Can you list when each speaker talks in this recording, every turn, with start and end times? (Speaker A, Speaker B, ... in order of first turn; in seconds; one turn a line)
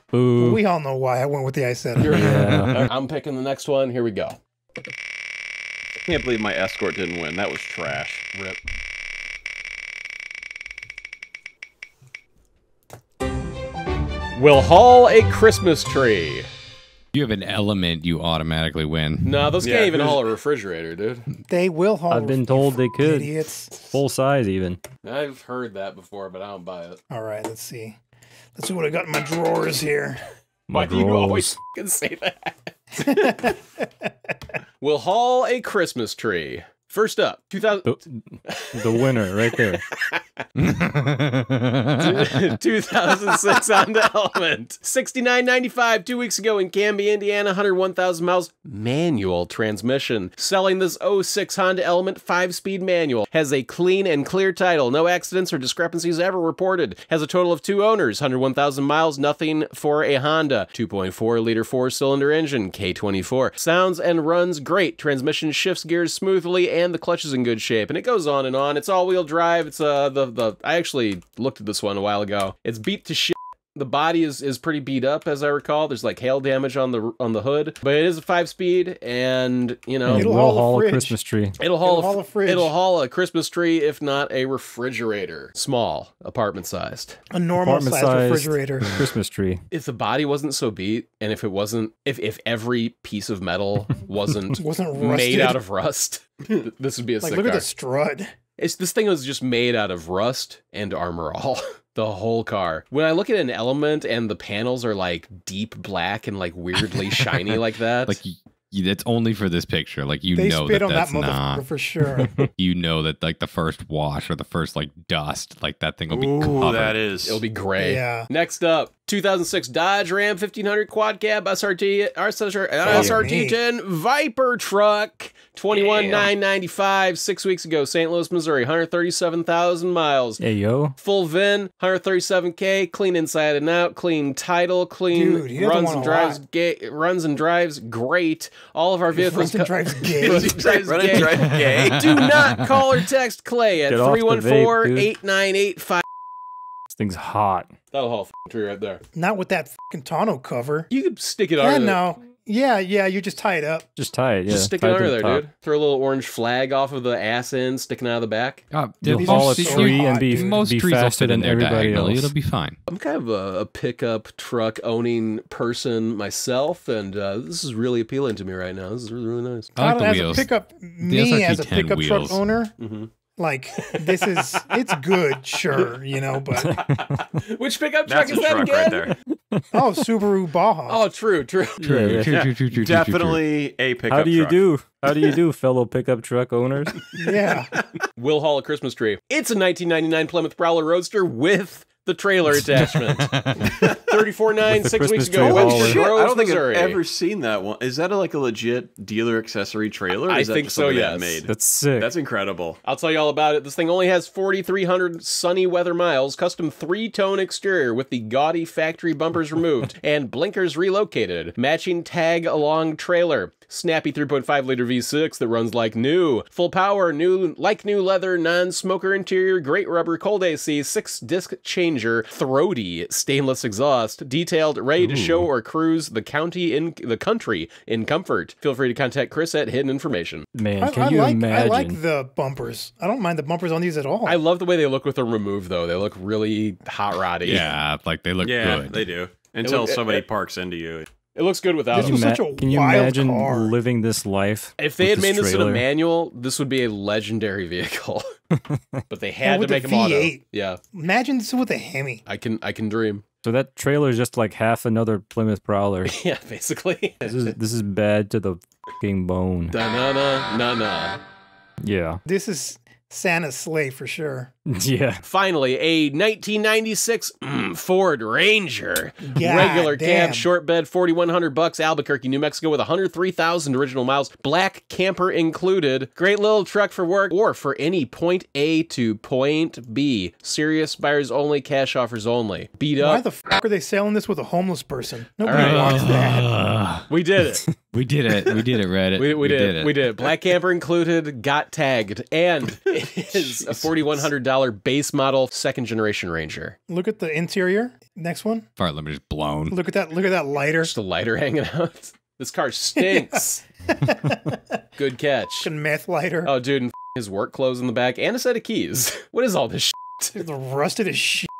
Speaker A: 0.1-0.6
Speaker B: 0.3-2.3
Speaker C: 2.0-4.4
Speaker A: 2.1-2.8
Speaker D: 2.4-2.7
Speaker E: 6.0-8.2
Speaker C: 14.3-16.5
Speaker D: 17.1-19.4
Speaker C: 19.2-21.3
Speaker E: 19.6-20.3
Speaker B: 21.5-23.7
Speaker A: 22.1-24.8
Speaker C: 25.0-27.0
Speaker B: 27.1-28.0
Speaker B: 28.6-30.2
Speaker A: 30.7-31.6
Speaker C: 30.7-33.5
Speaker B: 33.0-34.1
Speaker C: 34.8-40.2
Speaker A: 37.8-38.2
Speaker A: 38.7-39.8
Speaker D: 40.5-42.5
Speaker C: 42.0-80.3
Speaker A: 80.0-81.6
Speaker B: 80.1-82.7
Speaker C: 81.6-87.2
Speaker B: 87.3-89.0
Speaker A: 87.6-89.6
Speaker C: 89.7-97.7
Speaker B: 94.6-95.6
Speaker B: 97.2-98.3
Speaker C: 98.6-108.2
Speaker D: 108.1-111.7
Speaker B: 110.3-112.5
Speaker D: 112.3-117.0
Speaker E: 116.1-117.4
Speaker C: 117.2-130.4
Speaker B: 117.8-118.3
Speaker B: 122.8-123.6
Speaker A: 122.9-123.3
Speaker E: 125.7-126.3
Speaker A: 130.4-130.9
Speaker C: 131.0-146.0
Speaker B: 135.1-136.4
Speaker B: 139.1-140.6
Speaker E: 140.2-142.3
Speaker D: 141.4-142.7
Speaker A: 143.9-145.1
Speaker A: 146.9-147.7
Speaker C: 147.9-149.0
Speaker B: 149.1-150.9
Speaker C: 150.9-152.0
Speaker B: 151.6-153.9
Speaker A: 154.0-155.4
Speaker C: 154.5-158.6
Speaker D: 158.7-162.8
Speaker A: 159.0-162.3
Speaker B: 159.2-160.6
Speaker C: 162.9-169.7
Speaker D: 169.8-170.5
Speaker B: 169.8-172.7
Speaker D: 171.0-172.4
Speaker C: 172.8-173.1
Speaker B: 173.3-176.9
Speaker C: 173.8-174.7
Speaker A: 176.6-177.2
Speaker C: 176.8-179.1
Speaker E: 178.1-179.2
Speaker B: 179.7-181.0
Speaker C: 180.9-182.0
Speaker D: 181.8-183.4
Speaker A: 181.8-182.3
Speaker E: 182.3-184.7
Speaker A: 184.1-186.9
Speaker B: 187.1-187.7
Speaker C: 188.2-197.0
Speaker D: 192.8-193.7
Speaker A: 194.7-196.1
Speaker E: 195.4-202.8
Speaker C: 200.3-201.4
Speaker A: 201.5-202.1
Speaker C: 202.8-230.5
Speaker A: 225.0-225.5
Speaker A: 230.5-232.0
Speaker B: 230.8-234.4
Speaker C: 234.2-237.7
Speaker D: 237.4-239.1
Speaker E: 238.4-241.1
Speaker C: 239.6-240.2
Speaker C: 241.3-242.2
Speaker B: 241.9-243.7
Speaker A: 241.9-245.8
Speaker C: 244.8-248.2
Speaker A: 248.5-249.0
Speaker C: 249.1-250.8
Speaker B: 249.4-250.4
Speaker B: 250.9-252.2
Speaker C: 252.3-253.2
Speaker A: 253.4-256.2
Speaker C: 256.1-257.5
Speaker A: 257.2-259.7
Speaker C: 259.7-261.2
Speaker A: 261.8-262.2
Speaker B: 262.2-264.5
Speaker A: 264.7-265.2
Speaker C: 265.2-283.2
Speaker B: 269.2-270.5
Speaker B: 283.0-286.5
Speaker C: 285.4-286.1
Speaker D: 285.5-287.1
Speaker C: 287.1-287.6
Speaker D: 287.9-290.1
Speaker C: 289.1-296.8
Speaker E: 293.6-294.1
Speaker B: 296.9-298.6
Speaker D: 298.8-299.8
Speaker B: 299.7-300.9
Speaker C: 300.8-303.6
Speaker B: 303.0-303.4
Speaker B: 303.9-304.8
Speaker C: 305.0-305.7
Speaker B: 305.6-306.5
Speaker C: 306.4-310.4
Speaker B: 310.3-311.5